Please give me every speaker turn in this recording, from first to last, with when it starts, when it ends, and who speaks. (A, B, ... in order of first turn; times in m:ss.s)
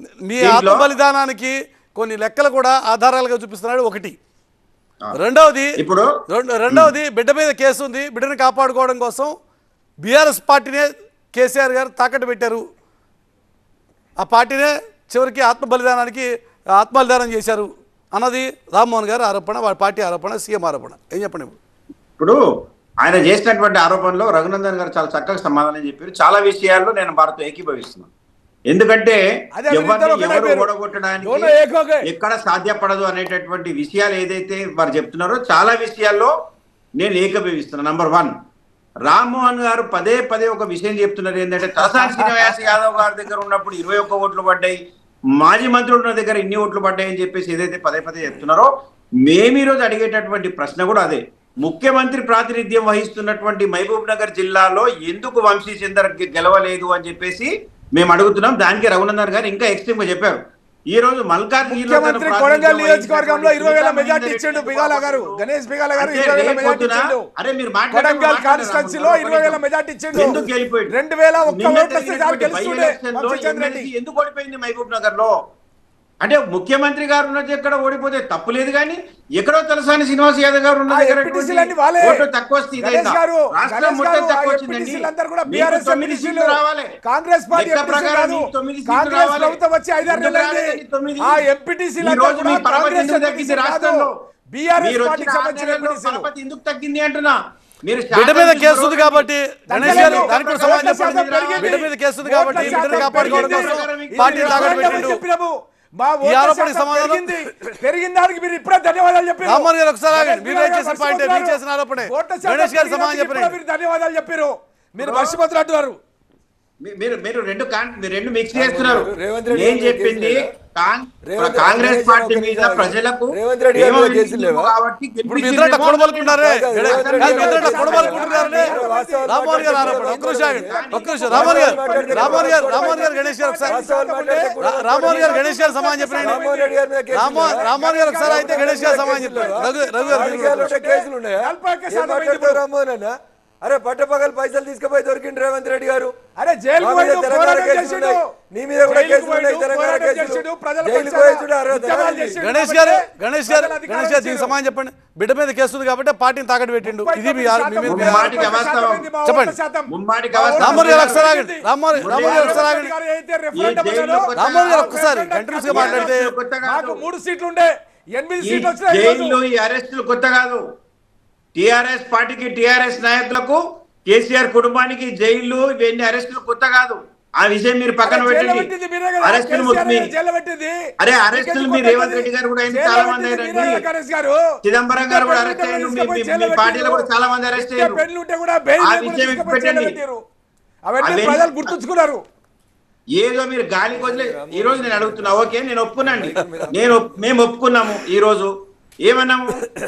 0:00.2-0:04.2 A
0:00.4-0:00.9 B
0:05.2-0:05.7 A
0:05.8-0:06.1 B
0:06.3-0:09.3 A
0:10.0-0:12.6 A
0:14.2-0:21.5 A
0:23.0-0:28.1 B
0:28.7-0:36.3 B
0:29.6-0:30.7 C
0:31.2-0:32.0 C
0:37.0-0:38.3 B
0:39.0-0:44.8 B
0:41.9-0:42.6 C
0:45.4-0:48.7 B
0:49.2-1:05.4 B
1:01.6-1:07.2 C
1:06.0-1:09.6 B
1:07.9-1:13.9 C
1:10.1-1:10.9 B
1:11.4-1:15.3 B
1:16.2-1:26.9 B
1:20.9-1:22.2 C
1:22.8-1:36.3 C
1:27.5-1:31.4 B
1:32.0-1:34.1 B
1:34.8-1:41.8 B
1:38.1-1:45.2 A
1:39.7-1:56.0 C
1:42.5-1:45.1 B
1:46.2-1:47.3 A
1:49.4-1:53.5 A
1:55.0-1:55.4 B
1:56.8-2:08.8 B
1:58.5-2:00.5 D
2:01.2-2:04.7 D
2:05.3-2:13.8 A
2:06.4-2:13.1 D
2:07.2-2:10.3 C
2:10.6-2:12.6 B
2:11.8-2:22.6 C
2:13.7-2:15.4 D
2:14.6-2:16.4 A
2:16.2-2:17.7 D
2:17.1-2:20.7 A
2:18.2-2:26.1 D
2:26.4-2:28.3 C
2:26.8-2:32.4 D
2:28.8-2:34.6 C
2:32.4-2:38.5 A
2:36.8-2:49.4 C
2:37.9-2:39.1 B
2:39.2-2:39.6 A
2:39.9-2:41.2 B
2:40.6-2:42.9 A
2:42.0-2:42.7 B
2:43.5-2:45.0 B
2:44.3-2:46.3 A
2:45.6-2:47.0 B
2:48.4-2:50.6 B
2:51.5-3:00.1 B
2:58.0-3:04.4 C
3:01.0-3:03.8 B
3:04.6-3:08.0 B
3:04.9-3:10.2 C
3:08.8-3:10.0 B
3:10.8-3:12.2 C
3:11.0-3:11.7 B
3:13.2-3:18.5 B
3:13.9-3:15.4 D
3:16.0-3:16.8 D
3:19.0-3:19.6 B